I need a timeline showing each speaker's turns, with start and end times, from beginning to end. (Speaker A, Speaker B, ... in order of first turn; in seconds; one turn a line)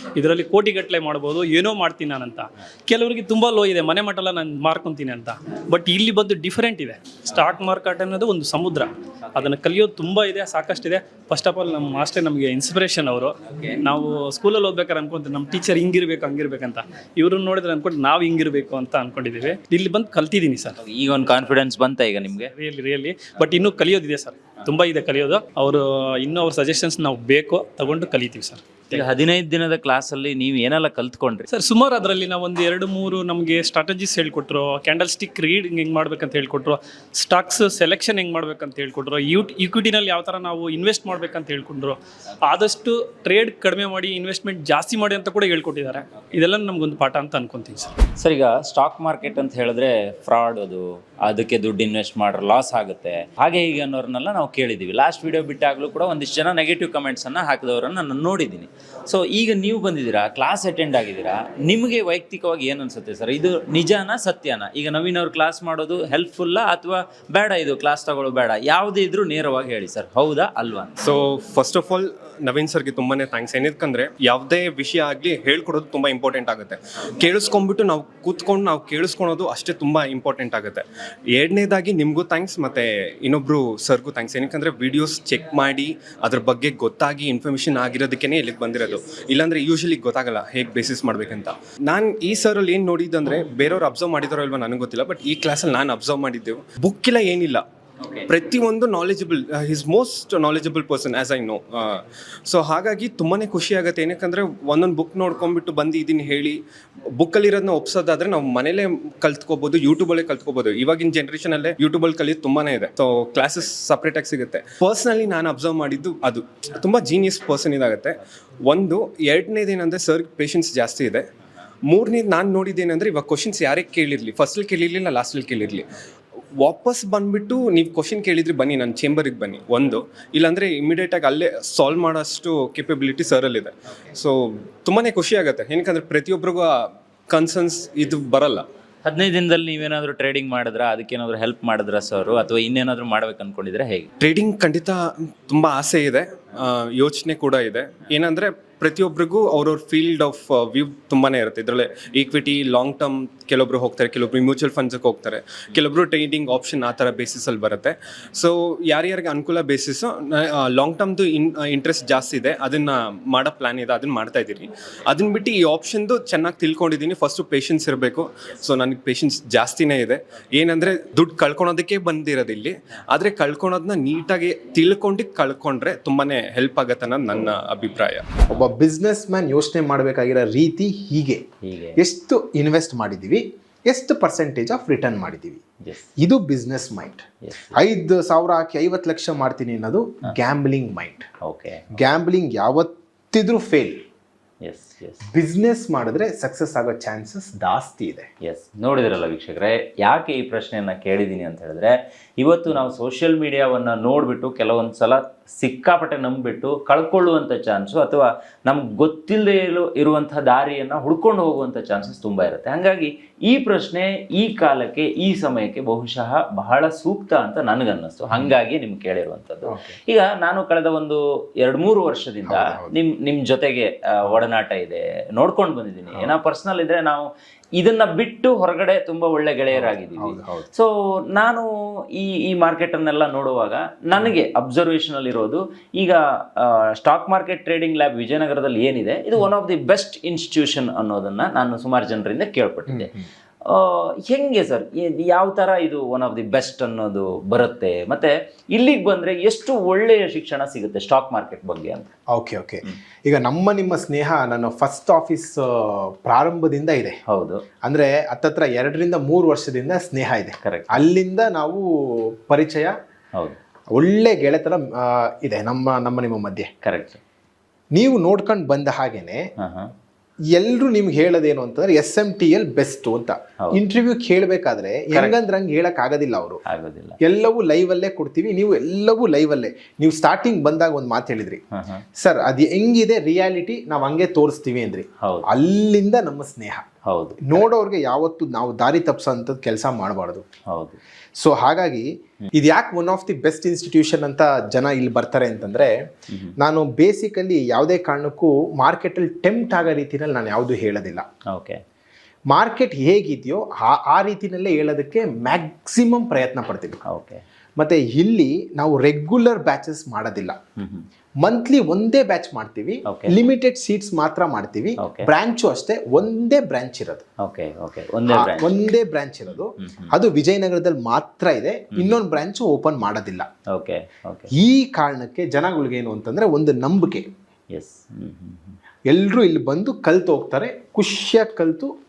Speaker A: 0.1-20.8
Speaker B: 20.8-22.5
Speaker A: 22.5-29.0
Speaker B: 28.9-31.5
Speaker A: 31.5-47.9
Speaker B: 48.2-71.0
Speaker C: 71.0-97.6
Speaker B: 98.0-98.3
Speaker C: 98.3-106.6
Speaker C: 107.1-121.2
Speaker C: 121.9-125.9
Speaker C: 126.6-138.7
Speaker B: 139.0-144.1
Speaker C: 144.2-178.3
Speaker D: 178.5-181.4
Speaker B: 181.6-182.0
Speaker D: 182.0-185.6
Speaker D: 186.2-191.3
Speaker B: 187.4-187.8
Speaker B: 191.4-191.9
Speaker D: 191.9-194.0
Speaker B: 194.6-195.2
Speaker D: 195.3-198.3
Speaker B: 198.4-227.2
Speaker D: 219.7-219.9
Speaker D: 222.4-222.9
Speaker B: 227.8-243.1
Speaker D: 229.7-230.7
Speaker D: 242.9-243.2
Speaker B: 243.7-252.1
Speaker D: 252.3-257.2
Speaker B: 257.3-257.6
Speaker D: 257.8-261.8
Speaker B: 260.6-261.1
Speaker D: 262.4-262.9
Speaker D: 263.9-266.7
Speaker B: 266.8-267.2
Speaker D: 267.9-269.4
Speaker B: 269.6-269.9
Speaker D: 270.5-276.6
Speaker B: 276.7-277.2
Speaker D: 277.2-281.6
Speaker B: 281.7-282.0
Speaker D: 282.1-286.8
Speaker B: 285.2-285.5
Speaker B: 287.1-287.6
Speaker D: 287.4-290.4
Speaker B: 290.7-291.0
Speaker D: 291.4-295.9
Speaker D: 296.6-301.2
Speaker B: 301.5-301.8
Speaker D: 302.5-307.0
Speaker B: 307.1-307.4
Speaker D: 307.8-310.6
Speaker B: 310.8-311.1
Speaker D: 311.4-317.2
Speaker B: 313.1-313.3
Speaker B: 315.0-315.3
Speaker B: 317.4-318.7
Speaker D: 318.3-323.5
Speaker B: 319.8-320.1
Speaker B: 323.7-324.5
Speaker D: 324.6-327.2
Speaker B: 327.7-328.8
Speaker D: 329.1-331.9